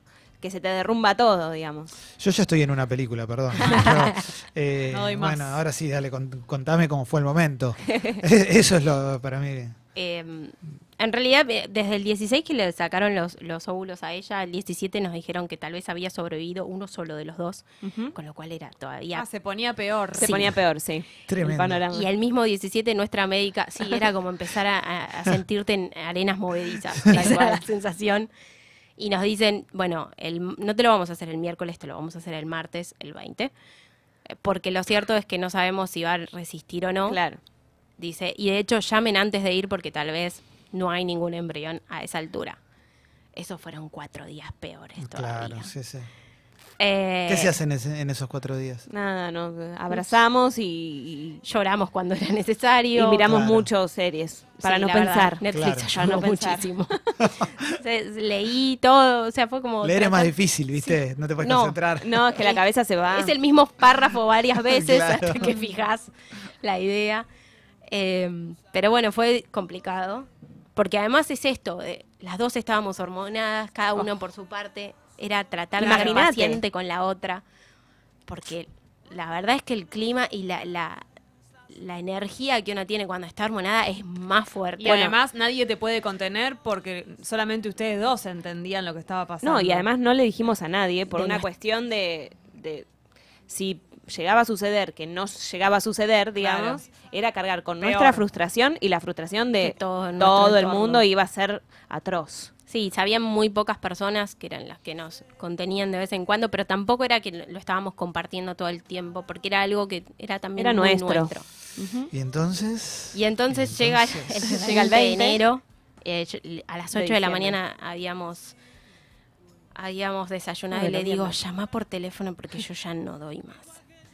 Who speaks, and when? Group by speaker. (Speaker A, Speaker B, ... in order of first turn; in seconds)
Speaker A: 0.4-1.9, 7.9-8.2, 17.8-18.1, 20.2-22.1, 27.1-27.6, 37.1-37.4, 48.9-51.4, 52.9-56.7, 62.0-63.3, 75.8-76.6, 89.4-92.9, 93.5-102.5, 110.6-112.1, 114.4-115.4, 116.9-117.6, 120.7-121.4
Speaker B: 2.2-9.7, 21.3-21.8, 45.0-46.1, 47.3-48.9, 53.2-53.7, 55.5-55.9, 57.2-57.5, 59.8-62.3, 64.6-65.5, 112.1-114.5
Speaker C: 4.9-5.6, 19.1-20.4, 75.8-76.2, 84.8-89.9, 96.3-96.8, 97.8-98.2
Speaker D: 9.9-19.2, 20.2-20.5, 21.9-28.3, 29.0-33.5, 34.3-37.2, 38.0-42.6, 43.3-45.7, 46.8-47.5, 51.4-53.2, 54.6-61.8, 62.3-67.2, 67.9-77.4, 78.3-81.0, 81.7-85.1, 91.1-91.5, 99.6-101.0, 102.7-111.4, 113.1-118.5, 119.7-123.8